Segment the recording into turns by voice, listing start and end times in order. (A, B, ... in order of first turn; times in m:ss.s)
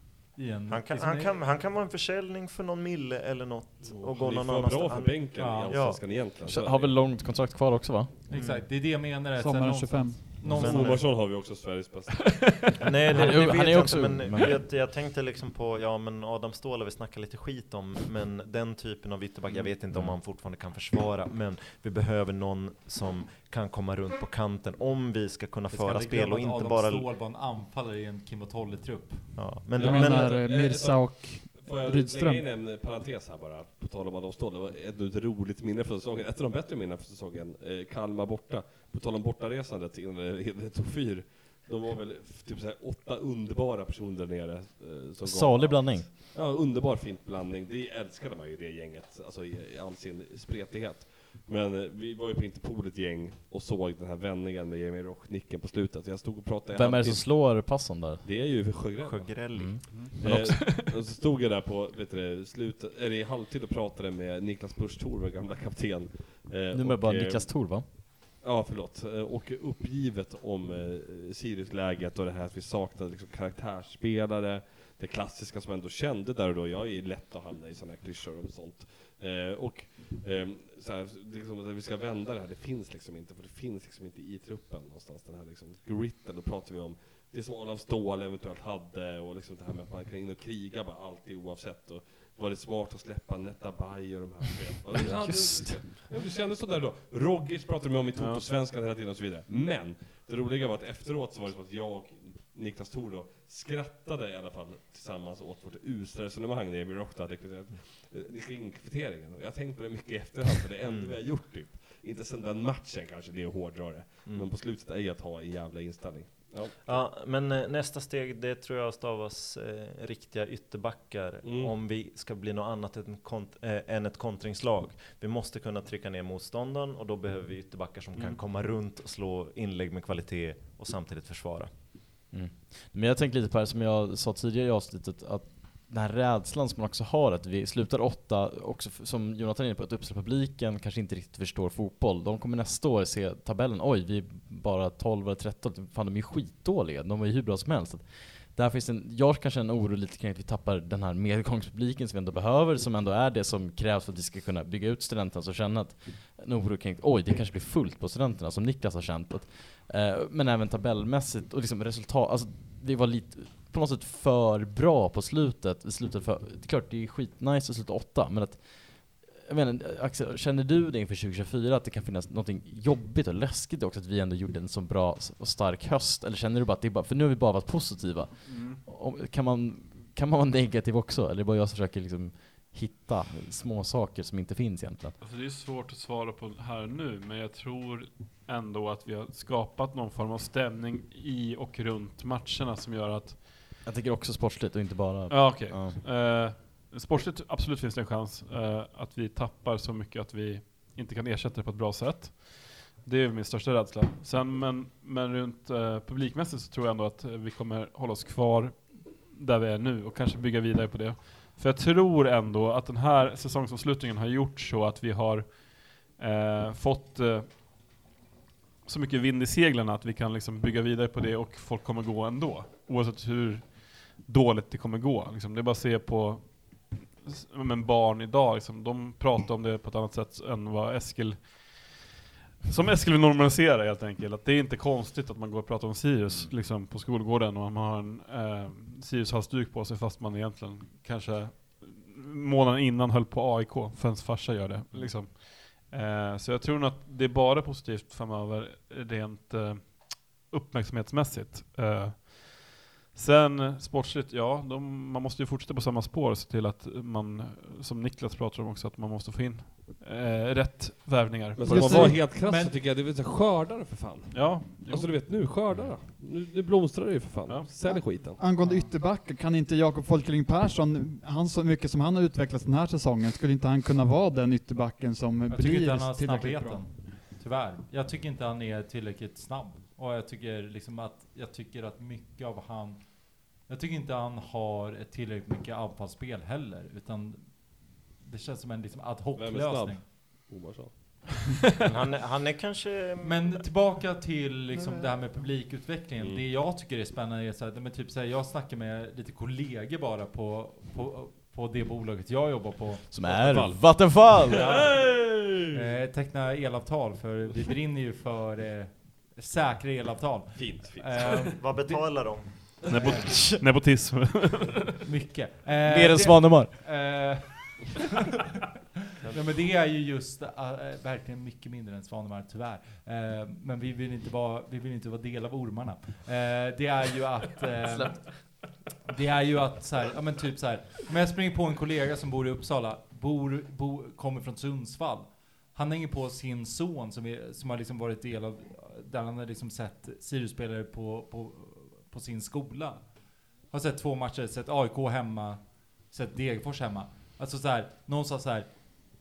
0:00.3-0:01.4 A
0:00.7-0:06.0 B
0:03.8-0:07.0 C
0:05.4-0:05.8 A
0:06.4-0:08.1 D
0:08.3-0:11.0 A
0:08.3-0:08.6 B
0:09.4-0:10.8 E
0:10.5-0:11.0 B
0:10.5-0:12.7 C
0:12.8-0:27.1 B
0:13.1-0:14.6 D
0:25.7-0:29.3 A
0:29.3-0:30.3 B
0:29.7-0:59.3 C
0:29.8-0:32.4 E
0:45.2-0:46.1 D
0:56.7-0:58.2 D
0:59.0-0:59.8 B
0:59.5-1:00.6 D
0:59.8-1:00.9 F
1:00.2-1:57.0 C
1:06.7-1:07.8 D
1:34.9-1:35.9 D
1:38.2-1:38.4 F
1:50.8-1:51.1 B
1:56.8-2:11.7 B
2:01.4-2:01.7 C
2:12.3-3:05.2 D
2:58.4-2:58.8 F
3:05.2-3:13.7 F
3:13.8-3:16.0 D
3:15.3-3:37.6 F
3:38.8-3:52.0 F
3:52.6-4:22.1 F
4:21.6-4:28.4 C
4:21.6-4:22.2 E
4:21.9-4:22.8 A
4:24.3-4:25.2 F
4:27.5-4:27.7 F
4:27.8-4:36.8 E
4:28.6-4:28.9 A
4:35.5-4:50.0 A
4:49.3-4:51.3 C
4:51.9-4:53.6 B
4:53.2-5:03.1 A
5:03.1-5:04.7 D
5:03.2-5:05.7 C
5:04.5-5:13.2 A
5:10.5-5:11.4 C
5:11.6-5:12.8 B
5:12.9-5:15.0 F
5:13.1-5:13.6 D
5:15.0-5:18.1 A
5:15.8-5:17.1 D
5:19.3-5:43.1 A
5:27.9-5:28.1 D
5:43.7-5:48.8 A